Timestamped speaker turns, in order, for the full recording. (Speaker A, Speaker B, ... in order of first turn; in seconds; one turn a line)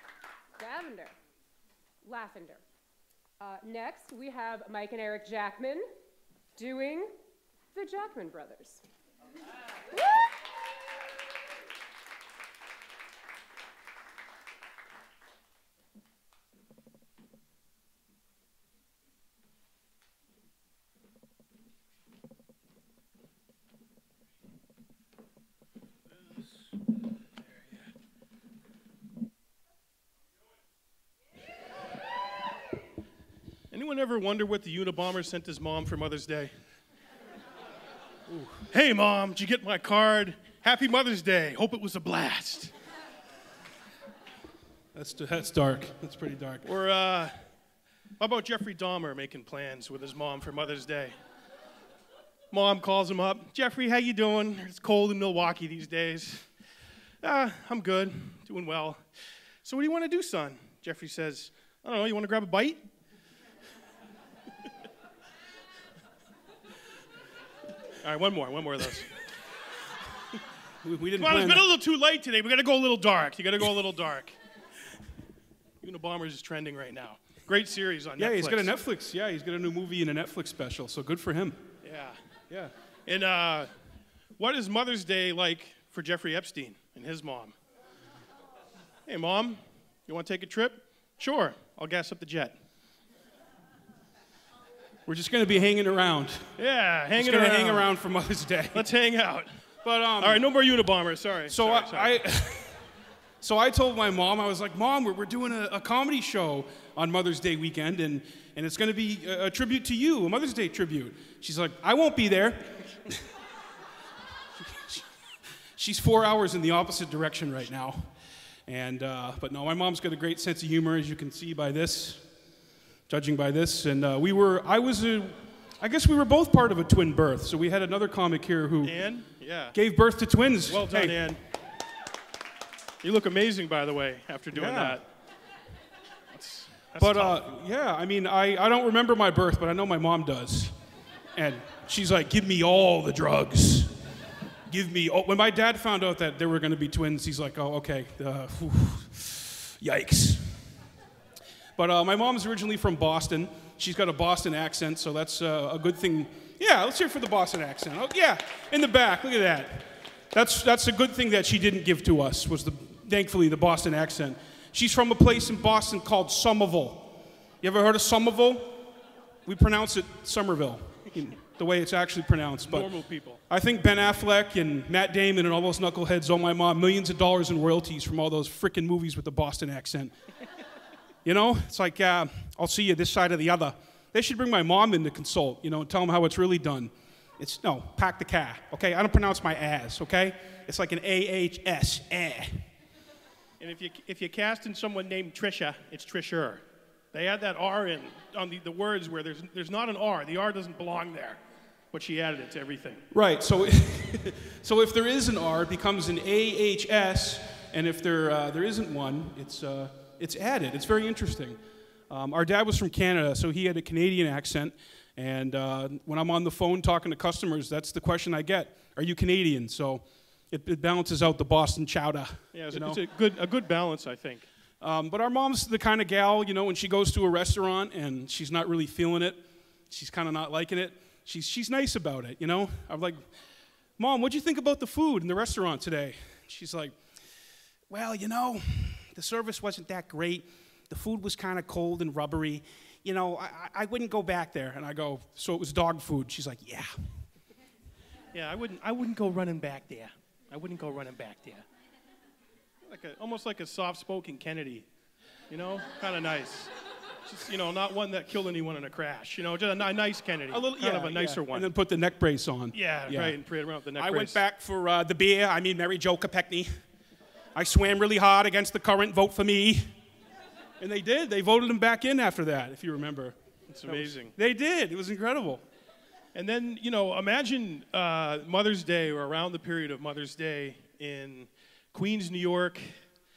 Speaker A: 0.6-1.1
Speaker A: 2.0-2.6
Speaker A: 3.4-5.8
Speaker A: 6.5-7.1
Speaker A: 7.7-8.8
Speaker B: 33.7-36.5
Speaker B: 38.7-42.7
Speaker C: 44.9-46.8
Speaker B: 46.6-47.3
Speaker B: 48.2-51.1
Speaker B: 52.5-56.5
Speaker B: 57.2-59.0
Speaker B: 59.6-62.8
Speaker B: 68.0-69.1
Speaker C: 70.8-71.6
Speaker B: 71.2-74.4
Speaker B: 75.8-78.7
Speaker C: 78.2-81.6
Speaker B: 81.8-82.2
Speaker B: 83.0-83.7
Speaker B: 84.4-87.5
Speaker B: 89.1-92.6
Speaker C: 95.0-96.5
Speaker B: 96.6-97.9
Speaker C: 97.2-98.9
Speaker B: 98.7-99.5
Speaker C: 99.8-100.4
Speaker B: 100.2-102.2
Speaker C: 101.5-102.8
Speaker C: 103.4-113.2
Speaker C: 114.6-115.0
Speaker C: 115.8-118.1
Speaker C: 118.7-122.2
Speaker C: 123.1-129.0
Speaker B: 128.8-129.8
Speaker C: 129.7-131.2
Speaker B: 130.7-131.4
Speaker B: 133.0-135.0
Speaker C: 134.5-135.0
Speaker B: 136.3-137.4
Speaker C: 137.0-140.7
Speaker C: 141.3-143.9
Speaker C: 144.7-150.7
Speaker C: 151.8-168.9
Speaker C: 169.4-172.9
Speaker B: 172.6-173.4
Speaker C: 173.5-180.1
Speaker C: 181.2-192.6
Speaker B: 193.6-201.4
Speaker B: 201.9-203.0
Speaker C: 203.1-211.6
Speaker C: 212.1-223.0
Speaker B: 222.5-224.4
Speaker C: 224.8-233.2
Speaker C: 234.0-237.0
Speaker C: 237.9-246.9
Speaker B: 248.3-251.6
Speaker B: 252.8-254.8
Speaker B: 255.5-256.7
Speaker B: 257.2-261.7
Speaker C: 260.5-263.4
Speaker B: 262.7-264.4
Speaker C: 264.0-266.7
Speaker C: 267.5-269.8
Speaker C: 270.8-275.6
Speaker B: 273.7-274.3
Speaker B: 276.3-283.0